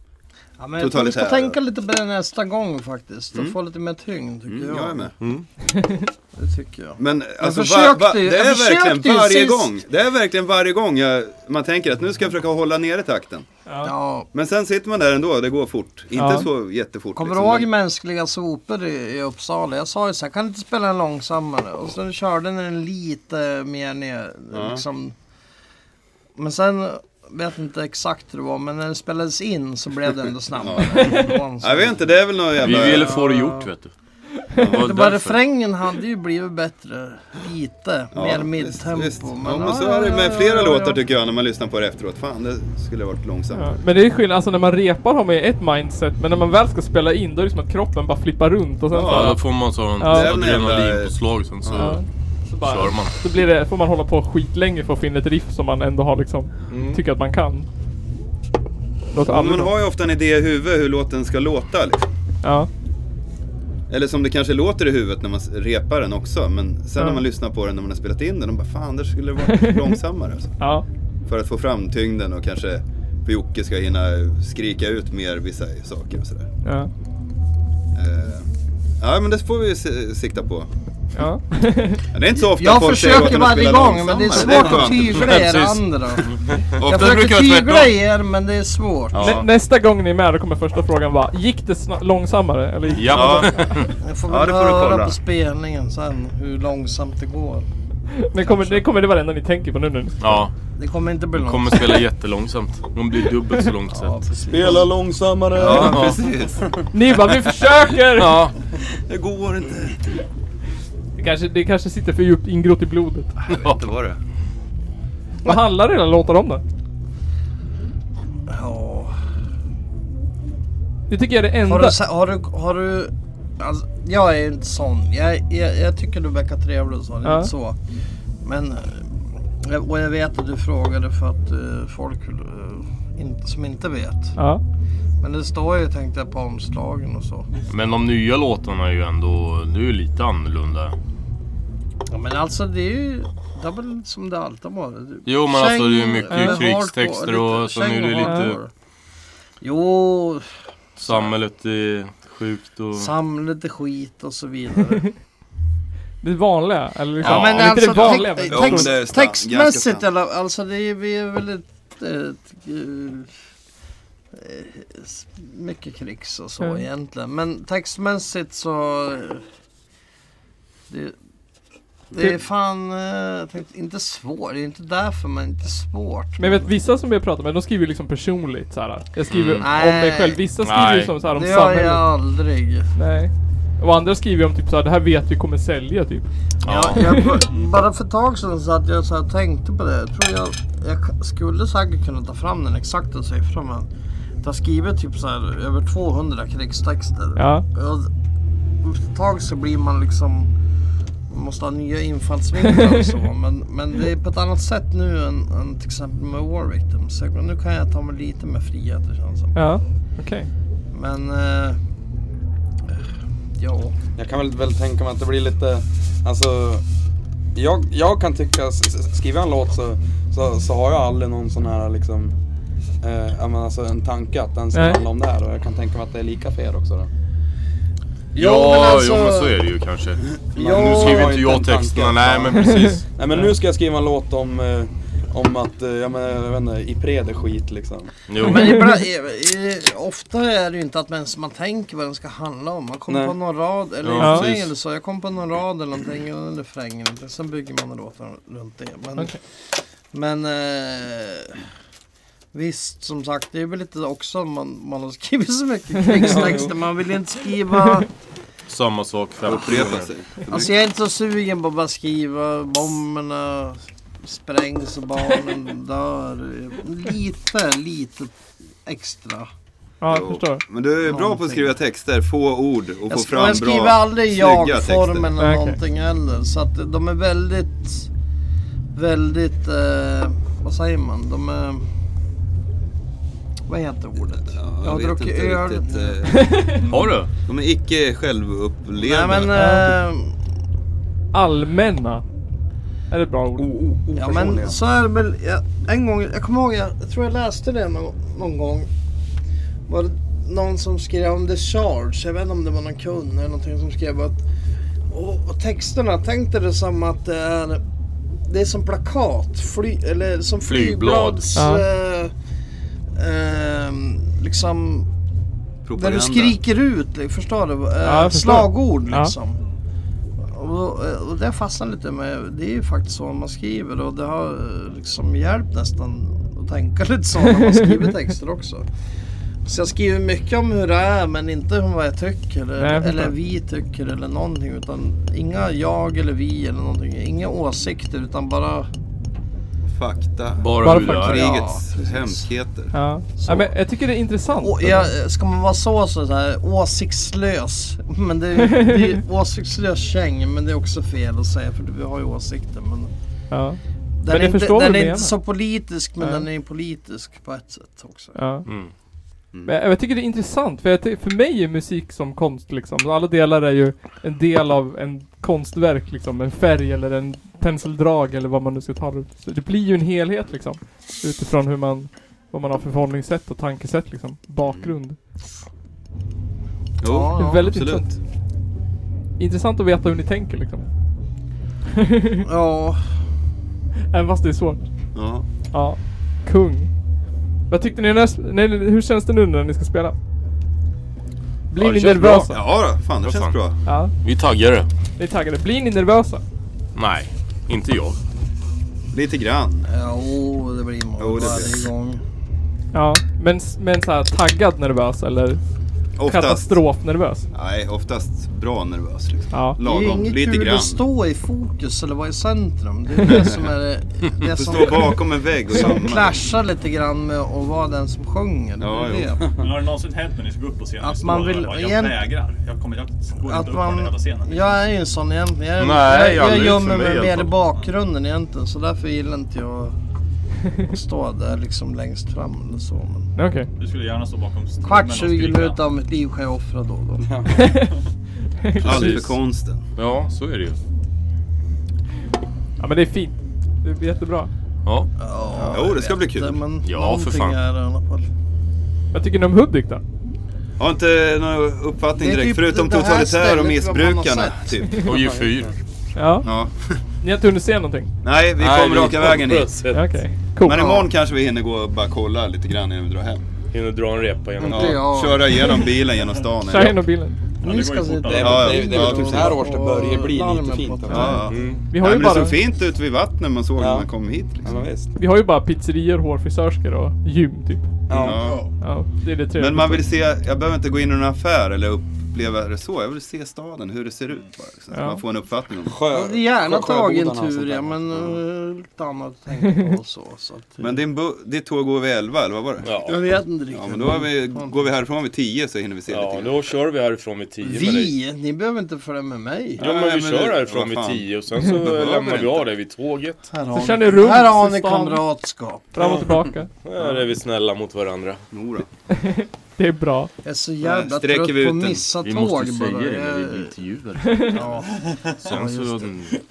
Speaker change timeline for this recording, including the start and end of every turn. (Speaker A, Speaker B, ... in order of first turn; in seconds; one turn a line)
Speaker A: 0.6-5.1
Speaker B: 0.8-1.6
Speaker B: 4.5-5.1
Speaker C: 5.2-5.5
Speaker D: 5.7-6.1
Speaker A: 6.3-9.7
Speaker B: 7.0-13.4
Speaker D: 13.7-13.9
Speaker A: 13.8-14.3
Speaker B: 14.3-17.7
Speaker D: 16.1-16.5
Speaker A: 17.1-25.1
Speaker B: 24.5-24.8
Speaker A: 26.4-32.0
Speaker B: 30.6-33.1
Speaker A: 32.6-33.7
Speaker C: 32.6-33.9
Speaker B: 34.6-34.9
Speaker C: 34.6-35.4
Speaker A: 34.7-41.0
Speaker B: 38.1-43.8
Speaker D: 43.5-49.4
Speaker B: 48.9-49.4
Speaker C: 49.0-52.0
Speaker B: 50.0-52.0
Speaker D: 50.0-50.3
Speaker D: 51.7-57.6
Speaker C: 52.6-53.1
Speaker C: 56.7-57.0
Speaker D: 59.1-59.7
Speaker B: 59.2-62.1
Speaker D: 62.4-62.7
Speaker B: 63.9-70.5
Speaker D: 69.5-69.9
Speaker D: 70.6-70.8
Speaker B: 71.2-76.5
Speaker D: 76.6-76.9
Speaker B: 77.9-78.5
Speaker B: 79.0-80.7
Speaker D: 81.2-82.0
Speaker B: 82.1-85.5
Speaker A: 82.4-89.4
Speaker C: 84.4-87.9
Speaker B: 86.8-87.1
Speaker B: 89.1-89.5
Speaker D: 89.2-93.5
Speaker C: 92.9-93.9
Speaker B: 93.1-93.7
Speaker A: 94.0-97.7
Speaker B: 94.3-95.2
Speaker D: 98.1-100.3
Speaker C: 100.2-100.5
Speaker A: 100.8-102.0
Speaker C: 101.3-104.2
Speaker A: 103.9-104.9
Speaker E: 104.5-106.2
Speaker B: 105.5-106.7
Speaker C: 105.8-106.1
Speaker D: 106.9-108.4
Speaker C: 108.2-108.5
Speaker B: 109.0-110.0
Speaker D: 111.2-113.3
Speaker B: 113.4-114.2
Speaker C: 113.5-113.8
Speaker D: 115.4-116.6
Speaker A: 118.5-119.2
Speaker D: 121.1-122.0
Speaker A: 121.7-127.8
Speaker D: 127.2-127.5
Speaker A: 128.4-134.3
Speaker A: 135.2-137.5
Speaker C: 137.7-140.9
Speaker A: 142.1-148.7
Speaker C: 145.2-148.6
Speaker D: 146.3-146.7
Speaker D: 148.2-148.5
Speaker A: 149.6-151.3
Speaker C: 151.0-153.1
Speaker A: 152.9-155.1
Speaker D: 156.2-158.9
Speaker A: 157.2-163.3
Speaker B: 157.2-160.1
Speaker A: 164.3-169.4
Speaker A: 170.9-171.1
Speaker A: 172.1-176.7
Speaker D: 176.4-182.1
Speaker C: 179.3-179.7
Speaker A: 179.6-180.4
Speaker C: 180.6-181.1
Speaker A: 181.2-182.9
Speaker D: 182.9-186.3
Speaker C: 186.6-187.5
Speaker A: 186.6-193.9
Speaker D: 187.0-187.4
Speaker A: 194.4-198.1
Speaker D: 197.3-197.6
Speaker A: 198.8-200.5
Speaker A: 201.3-209.5
Speaker D: 209.5-210.5
Speaker A: 210.9-211.8
Speaker A: 213.6-213.9
Speaker E: 214.2-216.8
Speaker E: 217.5-222.3
Speaker E: 223.0-227.1
Speaker D: 224.7-225.0
Speaker A: 228.3-229.6
Speaker C: 228.3-233.1
Speaker E: 230.5-238.1
Speaker A: 230.6-231.5
Speaker C: 238.3-238.8
Speaker A: 238.4-249.4
Speaker D: 238.4-239.0
Speaker E: 243.1-243.3
Speaker C: 244.0-244.7
Speaker D: 244.2-244.5
Speaker A: 250.1-251.6
Speaker A: 252.5-258.1
Speaker D: 256.1-256.4
Speaker E: 256.3-256.6
Speaker C: 258.7-260.1
Speaker B: 259.4-260.8
Speaker A: 260.5-269.5
Speaker D: 270.0-270.6
Speaker B: 270.1-275.3
Speaker A: 271.0-271.7
Speaker A: 273.1-278.1
Speaker D: 275.4-275.8
Speaker A: 278.9-281.8
Speaker A: 283.7-286.2
Speaker B: 284.5-289.6
Speaker D: 286.3-286.8
Speaker C: 286.9-287.3
Speaker A: 289.0-290.3
Speaker D: 289.5-289.9
Speaker D: 291.3-292.2
Speaker D: 293.1-293.7
Speaker E: 293.6-294.8
Speaker A: 294.2-298.9
Speaker A: 299.9-304.4
Speaker A: 305.1-307.8
Speaker A: 308.5-312.3
Speaker C: 310.7-311.4
Speaker D: 311.6-311.8
Speaker A: 313.1-315.1
Speaker B: 315.9-316.6
Speaker A: 315.9-319.6
Speaker D: 318.0-319.3
Speaker A: 320.5-328.8
Speaker A: 329.6-338.9
Speaker D: 332.8-333.3
Speaker B: 339.9-342.9
Speaker C: 340.6-341.4
Speaker D: 340.8-341.3
Speaker A: 341.2-342.5
Speaker D: 342.9-345.1
Speaker A: 343.4-343.7
Speaker A: 344.6-353.1
Speaker D: 348.6-349.0
Speaker D: 353.5-355.3
Speaker A: 354.2-358.4
Speaker D: 356.2-356.4
Speaker D: 358.3-358.7
Speaker C: 358.6-358.9
Speaker D: 359.6-375.2
Speaker B: 374.6-374.9
Speaker B: 377.0-378.2
Speaker A: 377.0-377.8
Speaker D: 377.4-378.1
Speaker D: 379.4-380.9
Speaker D: 381.9-382.4
Speaker A: 382.4-383.0
Speaker D: 384.1-384.8
Speaker B: 385.1-385.4
Speaker D: 385.7-386.9
Speaker D: 387.7-390.1
Speaker D: 391.7-392.6
Speaker C: 391.8-392.5
Speaker B: 392.3-393.8
Speaker C: 393.2-393.6
Speaker D: 393.9-394.1
Speaker C: 394.2-394.9
Speaker D: 395.2-396.4
Speaker C: 396.9-398.2
Speaker B: 399.1-399.9
Speaker A: 399.9-402.2
Speaker B: 401.2-401.9
Speaker D: 402.9-405.6
Speaker B: 406.2-406.8
Speaker D: 406.2-407.4
Speaker B: 407.5-411.0
Speaker D: 409.5-409.8
Speaker A: 409.8-419.5
Speaker B: 413.3-413.6
Speaker B: 414.4-416.4
Speaker B: 418.8-419.4
Speaker F: 419.6-424.8
Speaker A: 421.0-422.3
Speaker A: 423.4-429.9
Speaker C: 425.8-427.5
Speaker A: 430.8-433.3
Speaker D: 433.4-433.7
Speaker F: 433.8-435.8
Speaker A: 434.8-437.3
Speaker E: 437.2-437.5
Speaker D: 437.5-437.9
Speaker D: 438.6-439.2
Speaker B: 438.8-439.8
Speaker C: 438.8-439.3
Speaker C: 439.9-440.8
Speaker D: 442.8-444.5
Speaker A: 445.2-448.3
Speaker B: 445.7-446.6
Speaker C: 446.8-447.6
Speaker D: 449.1-450.0
Speaker B: 450.8-455.2
Speaker A: 452.1-454.8
Speaker C: 455.0-455.7
Speaker E: 455.1-455.7
Speaker D: 456.1-456.5
Speaker B: 456.4-456.7
Speaker D: 457.2-458.1
Speaker B: 458.2-459.8
Speaker C: 458.6-460.1
Speaker D: 459.9-461.0
Speaker B: 460.6-463.4
Speaker C: 463.7-465.1
Speaker A: 464.6-465.8
Speaker B: 464.6-467.0
Speaker D: 466.6-467.4
Speaker F: 467.6-468.8
Speaker A: 467.6-471.5
Speaker E: 468.2-471.4
Speaker B: 468.3-469.6
Speaker D: 471.1-472.6
Speaker B: 471.1-474.9
Speaker C: 471.5-471.8
Speaker E: 473.8-474.1
Speaker E: 474.6-475.1
Speaker D: 475.1-477.9
Speaker E: 478.1-478.6
Speaker B: 478.1-478.7
Speaker D: 478.8-480.0
Speaker B: 479.6-486.0
Speaker D: 484.9-485.2
Speaker E: 485.9-488.4
Speaker A: 486.1-491.0
Speaker B: 490.8-493.1
Speaker C: 492.8-493.1
Speaker A: 493.0-494.8
Speaker B: 493.7-496.6
Speaker C: 496.1-498.1
Speaker A: 497.6-499.8
Speaker B: 499.8-502.6
Speaker C: 499.8-503.4
Speaker A: 503.5-506.0
Speaker D: 503.7-505.2
Speaker D: 505.9-506.7
Speaker C: 506.8-508.4
Speaker B: 508.5-508.9
Speaker D: 509.1-510.3
Speaker A: 510.4-513.7
Speaker B: 510.8-512.0
Speaker C: 512.2-514.8
Speaker A: 514.5-516.1
Speaker C: 515.4-516.4